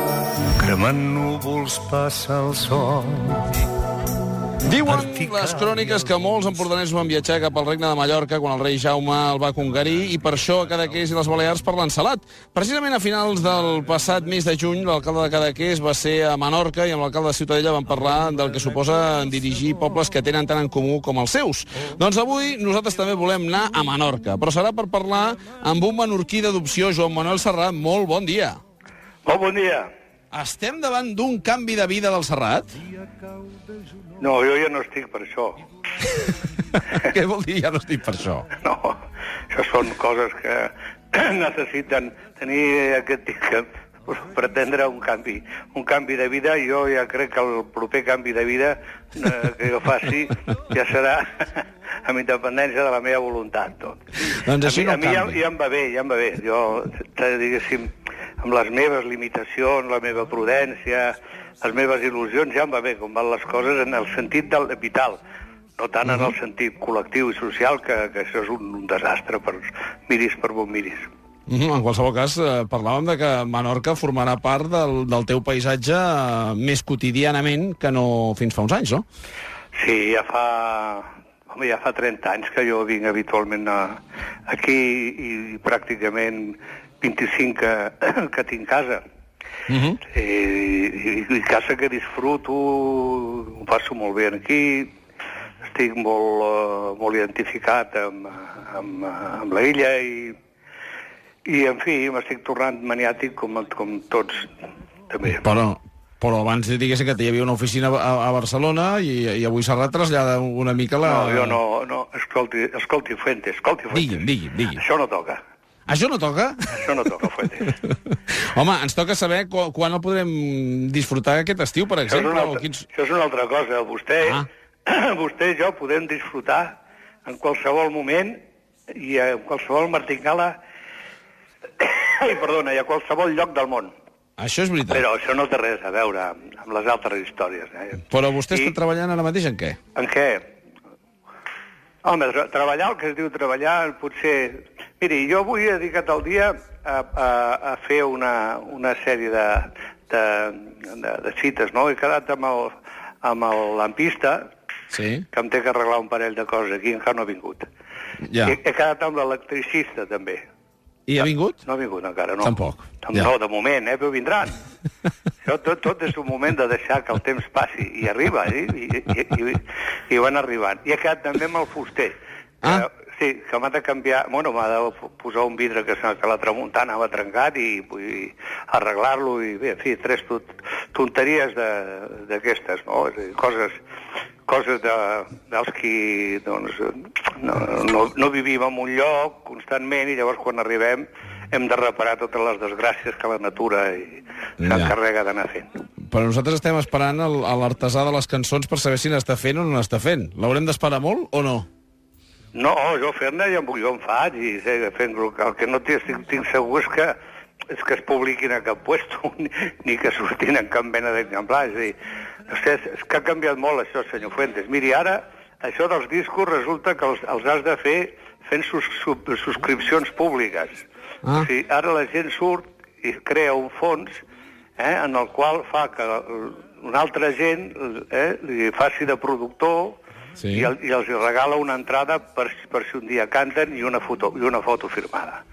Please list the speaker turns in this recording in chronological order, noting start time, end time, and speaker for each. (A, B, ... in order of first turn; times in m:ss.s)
0:00.6-0:03.4 A
0:04.6-0:28.6 B
0:29.2-0:29.9 C
0:30.3-0:32.8 B
0:34.2-0:35.6 C
0:36.8-0:38.5 B
0:38.6-0:39.0 C
0:39.5-0:57.9 C
0:54.3-0:55.4 B
0:58.4-1:05.2 C
1:05.8-1:11.1 C
1:06.0-1:06.3 B
1:11.5-1:19.0 B
1:19.8-1:29.0 C
1:29.7-1:30.0 B
1:30.1-1:34.9 C
1:35.6-1:40.4 C
1:41.5-1:44.5 C
1:45.1-1:45.4 C
1:45.3-1:51.6 B
1:51.0-1:55.4 C
1:53.9-1:54.8 B
1:55.9-1:56.9 B
1:56.7-1:57.8 C
1:58.4-2:02.9 B
2:02.1-2:10.6 C
2:11.8-2:13.9 C
2:14.4-2:15.0 B
2:14.9-2:18.8 C
2:18.1-2:19.8 B
2:20.0-2:20.5 C
2:22.0-2:34.5 C
2:34.9-2:35.2 B
2:35.3-2:37.7 C
2:38.3-2:38.6 B
2:38.4-2:40.4 C
2:41.1-2:41.6 B
2:41.2-2:44.6 C
2:42.4-2:43.3 B
2:45.4-3:03.8 C
3:04.5-3:15.7 C
3:14.6-3:14.9 B
3:16.1-3:21.7 B
3:22.5-3:27.2 C
3:27.7-3:32.0 C
3:32.5-3:44.2 C
3:44.8-3:50.0 C
3:50.4-3:50.7 B
3:50.5-3:55.4 C